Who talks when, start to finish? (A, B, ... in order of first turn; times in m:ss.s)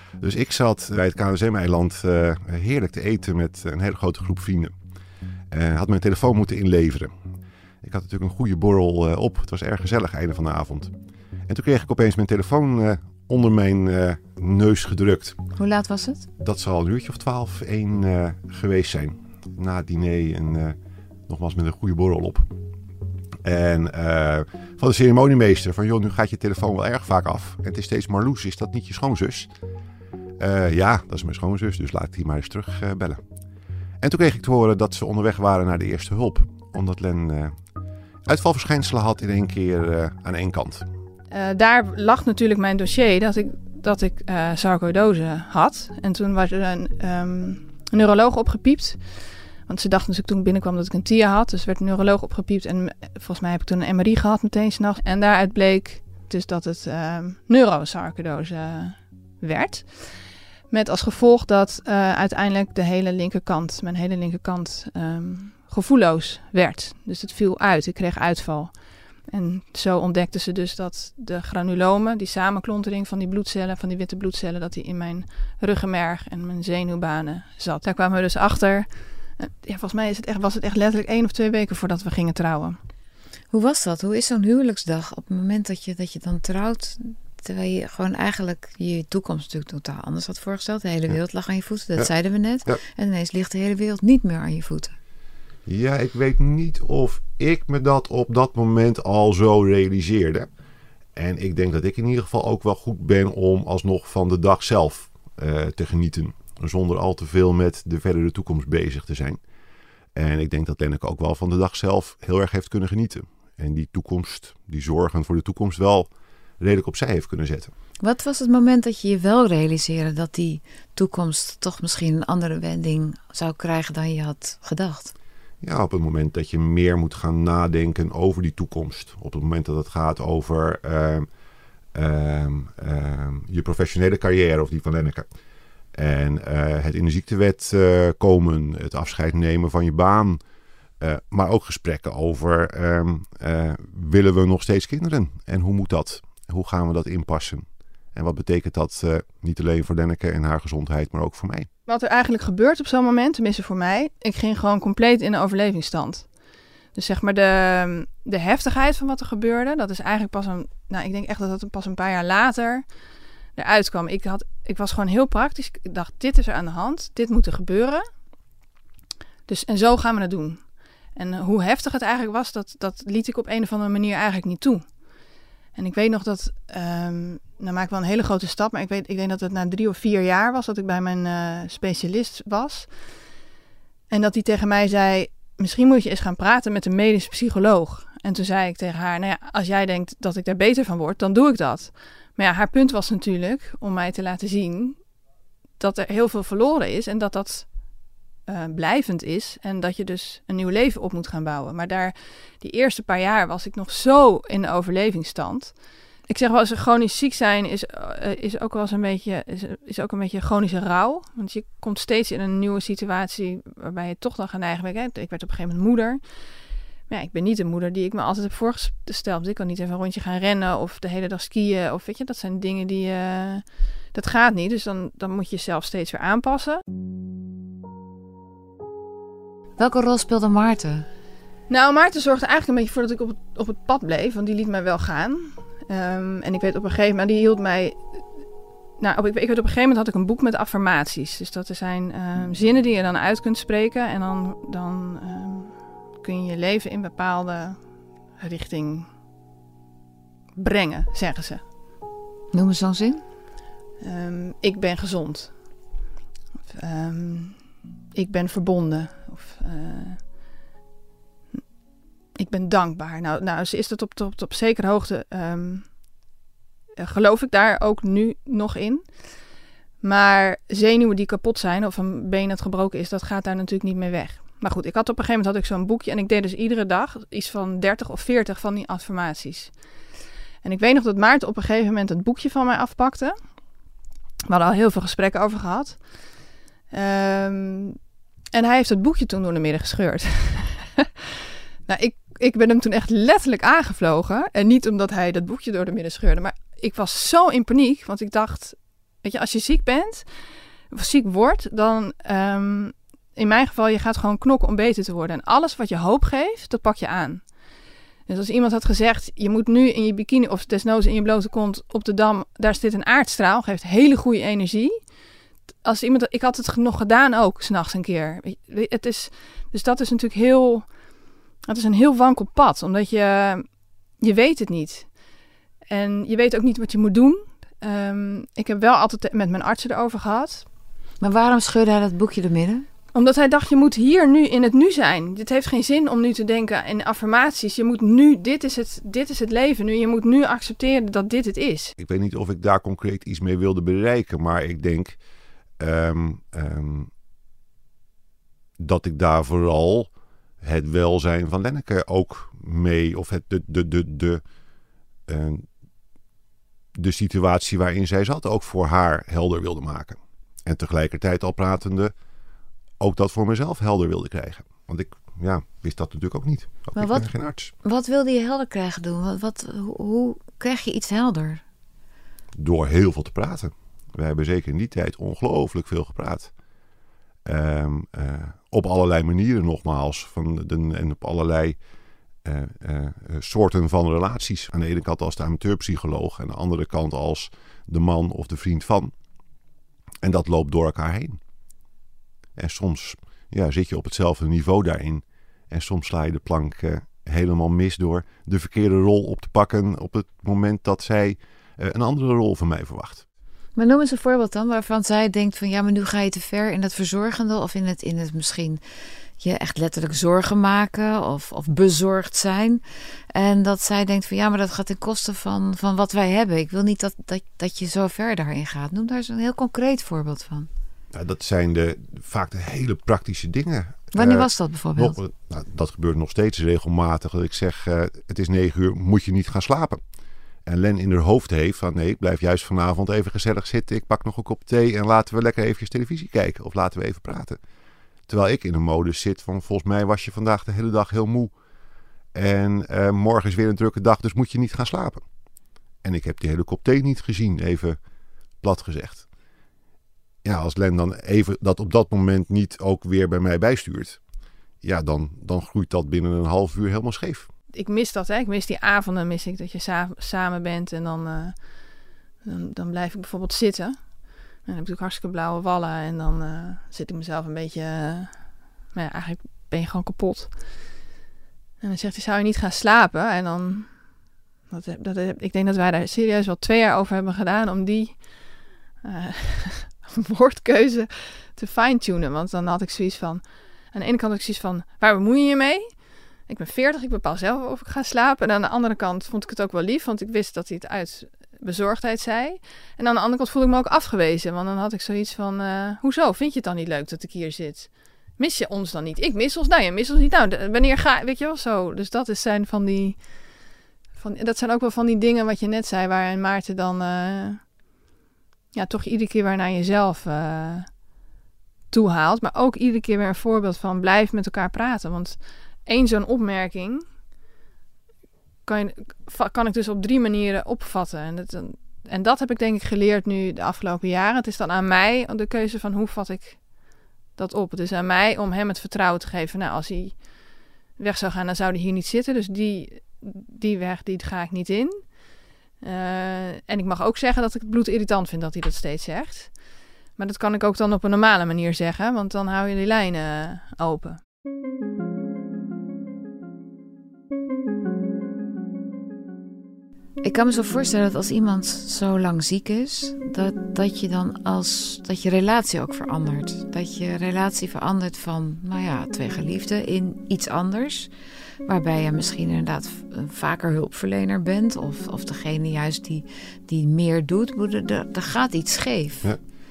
0:00.2-0:04.7 A
0:05.5-0:07.1 A
0:07.8-0:10.9 A
0:11.5-0:15.4 A
0:15.6-0:16.3 B
0:16.4-0:20.8 A
0:21.3-0:22.5 A
0:23.4-0:29.5 A
0:30.4-0:33.2 A
0:34.0-0:37.5 A
0:38.2-0:40.8 A
0:41.3-0:49.0 C
0:49.6-1:22.8 C
1:23.5-1:35.0 B
1:35.6-1:40.5 A
1:41.2-1:49.4 A
1:50.1-1:56.1 A
1:56.6-1:57.7 A
1:58.0-2:05.1 B
2:05.6-2:11.3 A
2:11.9-2:15.3 A
2:15.9-2:20.4 A
2:21.0-2:31.7 A
2:31.9-2:36.3 C
2:36.9-2:42.8 C
2:43.6-2:48.0 C
2:49.5-2:54.9 C
2:55.7-3:02.9 C
3:04.1-3:15.0 C
3:15.8-3:17.7 C
3:18.5-3:25.7 C
3:26.3-3:36.2 C
3:37.1-3:46.8 C
3:49.8-3:51.0 B
3:51.7-3:58.2 C
3:59.0-4:07.8 C
4:08.4-4:09.1 C
4:10.6-4:11.6 C
4:12.5-4:13.2 B
4:14.0-4:15.6 C
4:16.7-4:20.2 C
4:22.4-4:25.9 C
4:27.0-4:29.0 C
4:30.0-4:39.7 C
4:40.6-4:43.3 C
4:44.4-4:46.0 C
4:46.9-4:48.0 C
4:48.5-4:51.3 C
4:51.9-5:00.3 C
5:00.9-5:07.5 C
5:08.3-5:15.0 C
5:15.8-5:20.9 C
5:21.6-5:25.1 C
5:25.9-5:30.6 C
5:31.2-5:32.9 B
5:33.1-5:41.9 C
5:42.0-5:45.2 A
5:45.8-5:47.1 A
5:48.8-5:50.1 A
5:50.6-5:54.4 A
5:55.3-5:55.7 A
5:56.9-6:02.1 A
6:03.0-6:07.7 A
6:07.0-6:07.3 B
6:07.8-6:11.6 B
6:12.6-6:16.5 A
6:17.4-6:21.8 A
6:22.4-6:29.1 A
6:30.2-6:31.4 A
6:32.6-6:43.2 A
6:43.8-6:48.8 B
6:49.4-6:52.8 B
6:53.3-7:00.7 B
7:01.1-7:10.0 A
7:04.1-7:05.2 B
7:10.6-7:17.6 A
7:18.3-7:21.5 A
7:22.3-7:25.2 A
7:26.0-7:28.0 A
7:28.6-7:29.2 A
7:30.4-7:34.2 A
7:34.8-7:37.5 A
7:37.7-7:41.6 C
7:42.4-7:44.0 C
7:44.6-7:50.5 C
7:51.8-7:54.0 C
7:54.7-7:58.2 C
7:59.0-8:03.4 C
8:03.9-8:23.4 C
8:24.2-8:27.6 C
8:28.7-8:31.0 C
8:31.9-8:37.0 C
8:38.6-8:46.6 C
8:47.4-8:50.2 C
8:51.0-8:55.2 C
8:55.8-8:59.6 C
9:00.2-9:04.2 C
9:10.2-9:21.1 B
9:21.6-9:29.3 B